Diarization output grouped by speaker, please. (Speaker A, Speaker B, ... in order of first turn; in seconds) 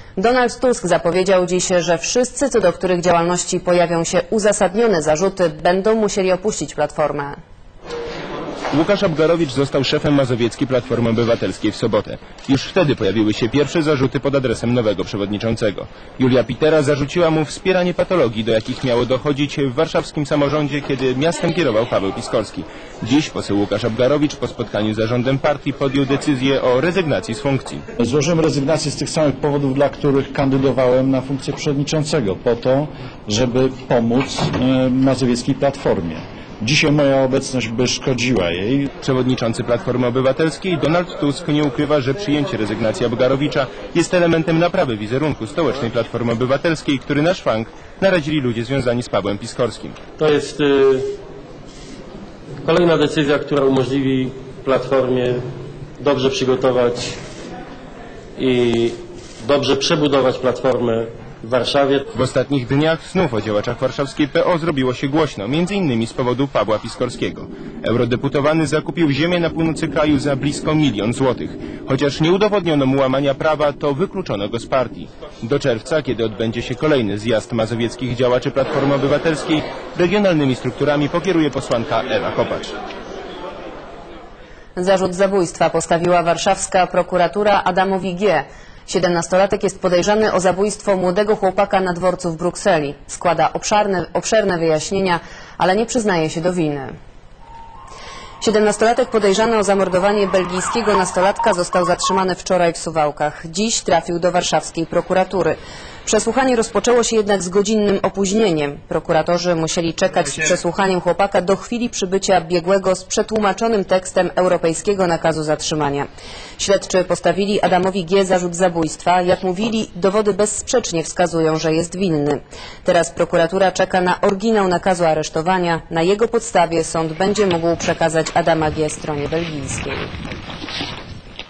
Speaker A: 0.2-7.4, 84.8-96.9, 98.4-130.1
Speaker B: 8.7-27.9, 39.0-50.0, 62.1-82.7
Speaker C: 28.0-38.9
Speaker D: 50.2-51.1, 52.6-55.4, 56.0-57.2, 58.4-62.0